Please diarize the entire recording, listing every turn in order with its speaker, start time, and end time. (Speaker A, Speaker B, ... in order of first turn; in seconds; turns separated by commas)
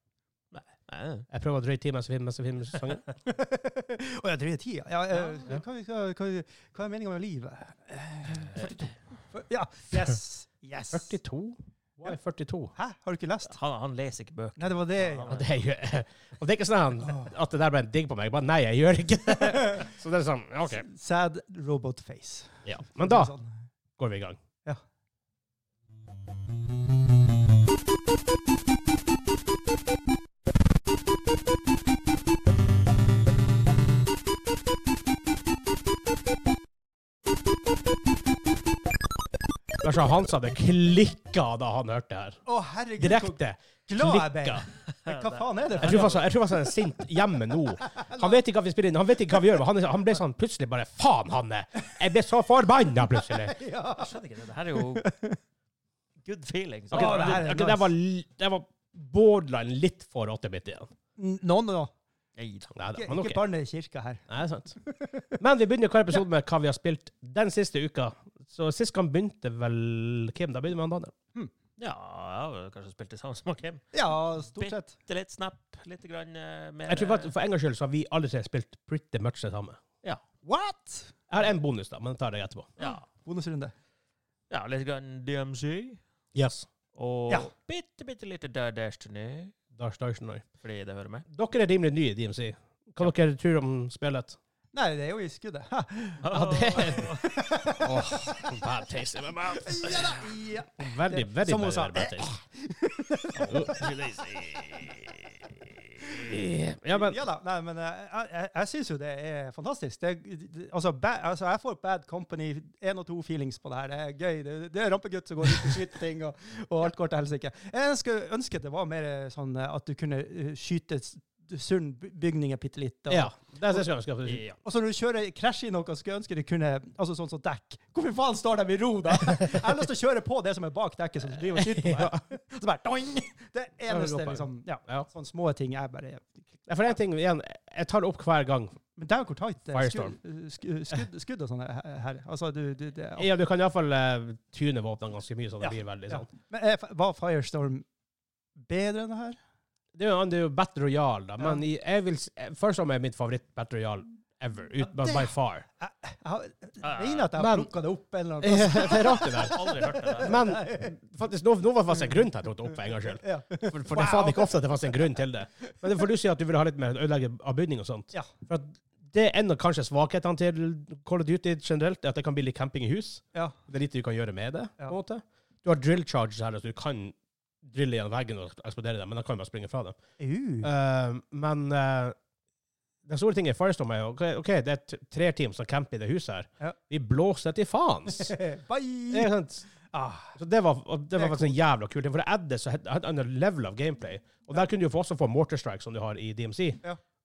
Speaker A: 0.5-1.3, Speaker B: 1.3-3.0, Speaker C: 3.2-11.2, Speaker A: 8.5-8.9, Speaker B: 10.9-12.7, Speaker C: 12.8-13.6, Speaker A: 13.5-15.5, Speaker C: 14.6-15.4, Speaker B: 15.3-20.9, Speaker C: 17.1-17.3, Speaker C: 19.4-19.8, Speaker C: 20.7-23.5, Speaker B: 22.6-23.3, Speaker B: 24.0-24.4, Speaker B: 39.8-42.4, Speaker C: 42.5-46.3, Speaker B: 43.0-44.6, Speaker A: 44.9-46.2, Speaker B: 45.8-53.5, Speaker C: 47.8-48.4, Speaker C: 53.0-54.2, Speaker A: 53.9-55.1, Speaker C: 54.8-55.4, Speaker A: 56.2-57.4, Speaker C: 56.9-57.9, Speaker B: 56.9-60.9, Speaker C: 61.2-61.9, Speaker A: 62.4-62.7, Speaker B: 62.7-63.4, Speaker C: 62.9-64.2, Speaker B: 64.3-64.8, Speaker C: 64.8-65.4, Speaker B: 65.4-71.1, Speaker A: 71.8-73.8, Speaker C: 73.9-75.0, Speaker A: 74.6-77.3, Speaker B: 76.9-79.8, Speaker C: 80.4-81.1, Speaker B: 81.3-82.7, Speaker A: 82.8-83.0, Speaker C: 82.8-83.7, Speaker A: 84.5-86.0, Speaker B: 86.3-86.7, Speaker A: 86.9-89.5, Speaker B: 89.7-90.5, Speaker A: 90.6-91.2, Speaker B: 91.3-94.4, Speaker C: 94.7-98.4, Speaker A: 96.2-97.3, Speaker B: 96.3-97.2, Speaker B: 97.8-100.2, Speaker C: 99.7-103.9, Speaker B: 100.8-102.3, Speaker A: 103.3-105.7, Speaker B: 103.5-103.8, Speaker B: 106.0-107.2, Speaker C: 106.9-123.9, Speaker B: 123.1-124.4, Speaker A: 124.2-124.6, Speaker C: 124.6-136.5, Speaker B: 131.5-132.2, Speaker B: 133.9-135.1, Speaker B: 136.7-138.8, Speaker C: 138.9-143.3, Speaker B: 139.7-140.1, Speaker B: 143.2-146.3, Speaker C: 145.6-147.8, Speaker C: 148.6-149.4, Speaker B: 149.9-155.7, Speaker C: 154.8-160.9, Speaker A: 156.8-157.3, Speaker B: 157.3-157.7, Speaker B: 158.4-159.6, Speaker A: 158.9-160.5, Speaker B: 160.2-180.0, Speaker C: 163.2-165.2, Speaker C: 180.2-180.7, Speaker B: 180.6-182.2, Speaker B: 183.0-188.4, Speaker C: 188.1-189.3, Speaker B: 189.1-189.7, Speaker C: 189.9-190.4, Speaker B: 190.3-196.8, Speaker C: 191.1-191.6